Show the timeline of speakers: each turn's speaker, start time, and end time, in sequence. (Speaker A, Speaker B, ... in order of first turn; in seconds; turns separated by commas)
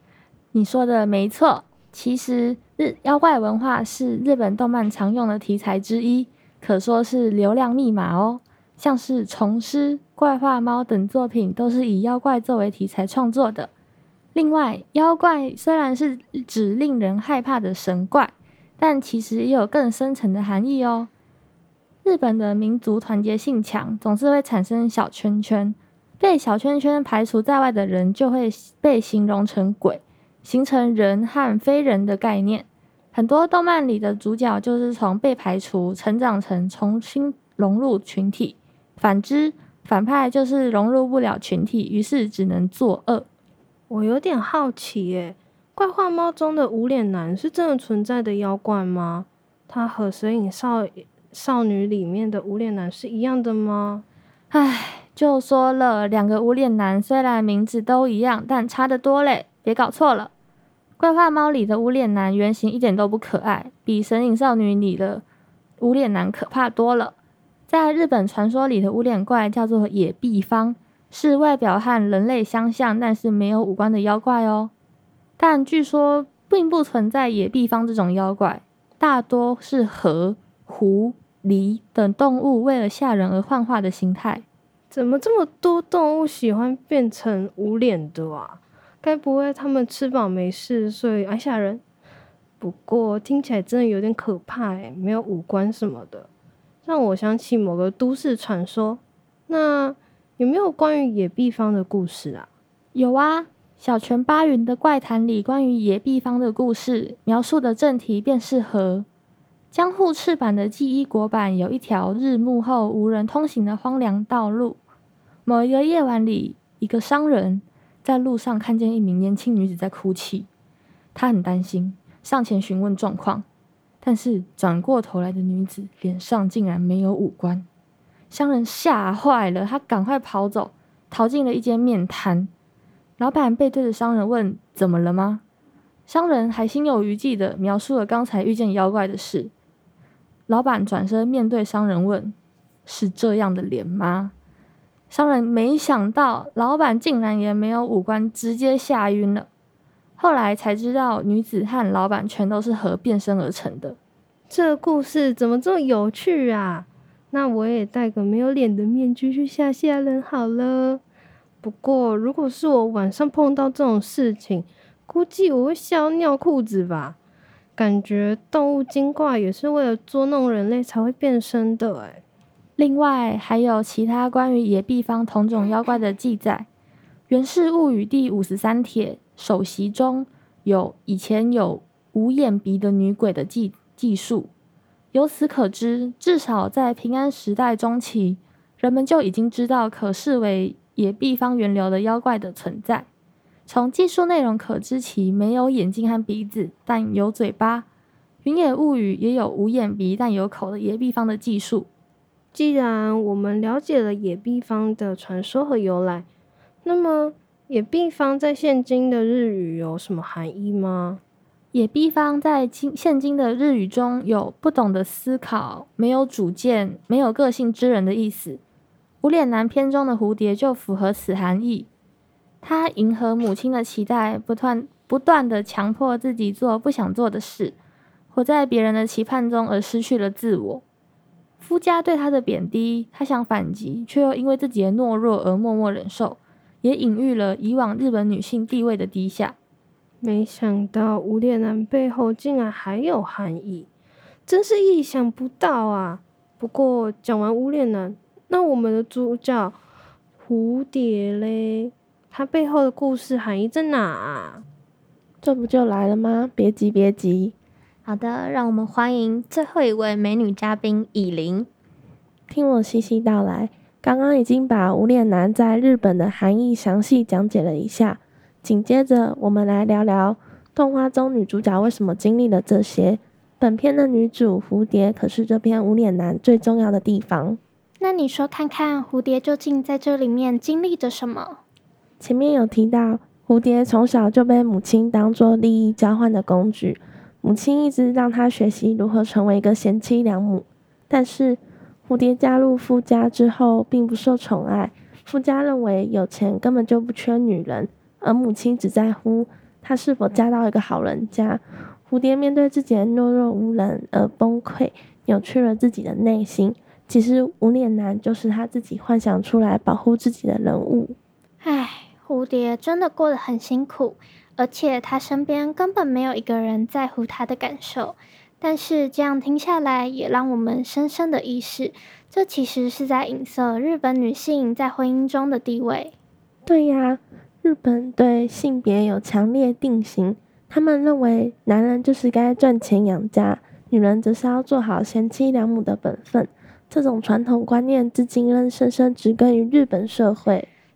Speaker A: 0.5-13.7, Speaker A: 14.3-21.1, Speaker A: 22.0-43.3, Speaker B: 43.9-54.0, Speaker A: 54.5-60.3, Speaker A: 61.0-65.2, Speaker A: 65.8-67.2, Speaker A: 67.7-74.7, Speaker A: 75.4-84.4, Speaker B: 84.9-91.8, Speaker B: 92.6-96.3, Speaker B: 96.8-102.5, Speaker A: 103.0-109.1, Speaker A: 109.7-114.8, Speaker A: 115.5-120.5, Speaker A: 121.2-123.5, Speaker A: 124.0-127.7, Speaker A: 128.3-132.5, Speaker A: 133.2-135.4, Speaker A: 136.1-139.5, Speaker A: 140.5-142.3, Speaker A: 142.9-144.3, Speaker A: 145.1-149.5, Speaker A: 150.2-154.0, Speaker B: 154.5-161.0, Speaker B: 161.6-167.2, Speaker B: 167.8-172.2, Speaker A: 172.8-176.7, Speaker A: 177.3-184.5, Speaker A: 185.1-193.1, Speaker A: 193.7-197.8, Speaker A: 198.4-201.9, Speaker B: 202.5-206.3, Speaker B: 206.8-211.2, Speaker A: 211.7-218.6, Speaker A: 219.2-221.9, Speaker A: 222.6-227.8, Speaker A: 228.3-230.8, Speaker A: 231.6-239.6, Speaker B: 240.2-243.9, Speaker B: 244.5-249.8, Speaker B: 250.4-254.6, Speaker C: 255.4-257.5, Speaker D: 258.1-261.7, Speaker C: 262.5-277.6, Speaker E: 278.0-281.6, Speaker C: 282.2-311.2, Speaker E: 311.6-326.1, Speaker C: 326.7-340.7